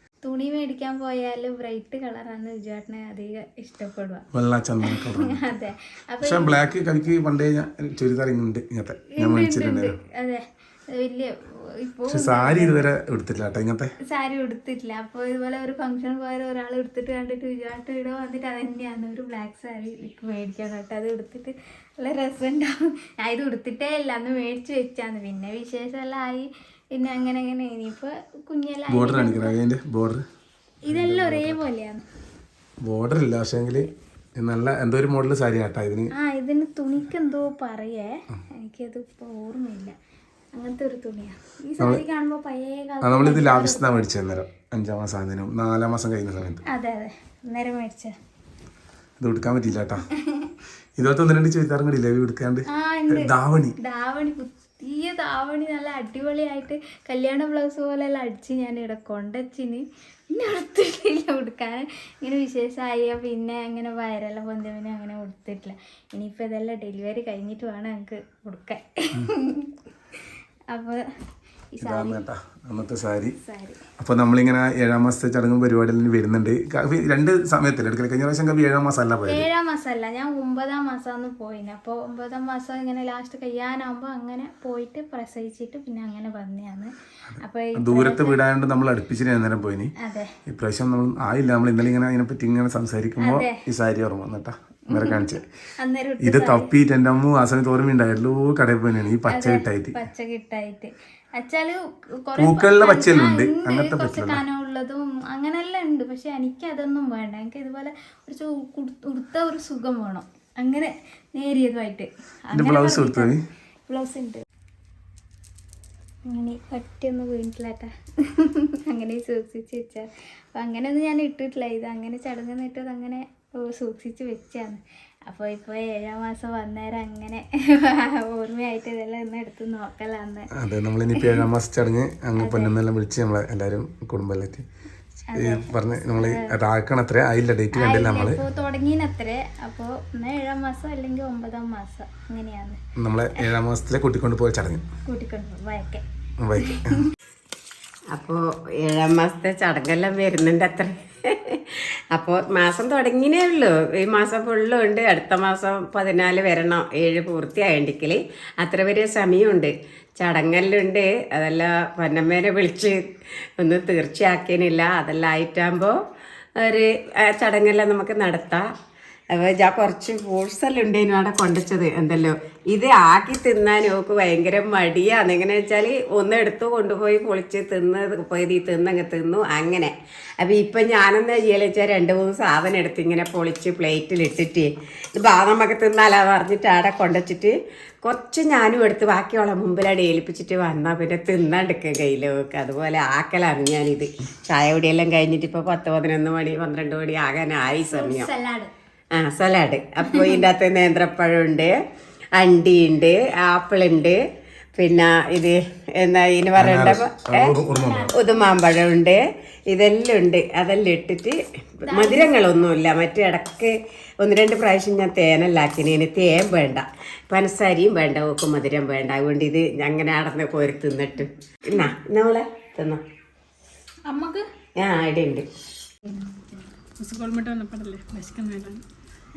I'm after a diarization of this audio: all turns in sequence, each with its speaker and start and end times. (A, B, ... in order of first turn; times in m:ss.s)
0:00.2-0:04.3 A
0:04.3-0:05.4 B
0:04.8-0:06.6 A
0:06.2-0:09.9 B
0:09.2-0:10.4 A
0:11.0-0:12.9 A
0:12.1-0:13.9 B
0:14.1-0:29.5 A
0:28.9-0:30.2 B
0:30.9-0:32.0 A
0:30.9-0:31.6 B
0:32.8-0:36.1 B
0:36.2-0:39.9 A
0:40.6-0:44.1 A
0:43.0-0:46.6 B
0:46.7-0:48.1 A
0:49.2-0:50.0 B
0:51.0-0:53.8 B
0:52.7-1:09.7 A
1:10.7-1:11.0 A
1:11.8-1:12.2 A
1:11.8-1:13.4 B
1:13.4-1:13.8 A
1:14.0-1:19.5 B
1:19.3-1:28.4 A
1:27.3-1:29.9 B
1:30.0-1:30.3 A
1:30.5-1:35.4 B
1:33.2-1:33.6 A
1:34.9-1:35.2 A
1:35.8-1:36.7 A
1:36.2-1:40.0 B
1:39.3-1:53.3 A
1:42.4-1:44.4 B
1:52.5-1:53.4 B
1:53.9-1:54.4 A
1:56.3-2:10.5 A
2:10.6-2:14.6 B
2:12.4-2:12.7 A
2:15.3-2:16.5 A
2:15.4-2:18.4 B
2:17.7-2:22.8 A
2:23.0-2:24.8 B
2:25.1-2:26.0 A
2:26.4-2:27.0 B
2:26.6-2:26.9 A
2:28.1-2:43.0 C
2:43.6-2:45.9 C
2:46.6-2:48.7 C
2:49.3-3:18.3 C
3:17.8-3:18.7 A
3:19.2-3:21.7 C
3:22.4-3:24.2 C
3:24.8-3:27.6 C
3:26.6-3:28.2 B
3:27.6-3:28.6 A
3:28.2-3:31.4 C
3:31.9-3:32.4 A
3:31.9-3:43.0 C
3:44.1-3:44.4 A
3:44.8-3:45.5 C
3:46.1-3:46.7 A
3:46.9-3:48.8 D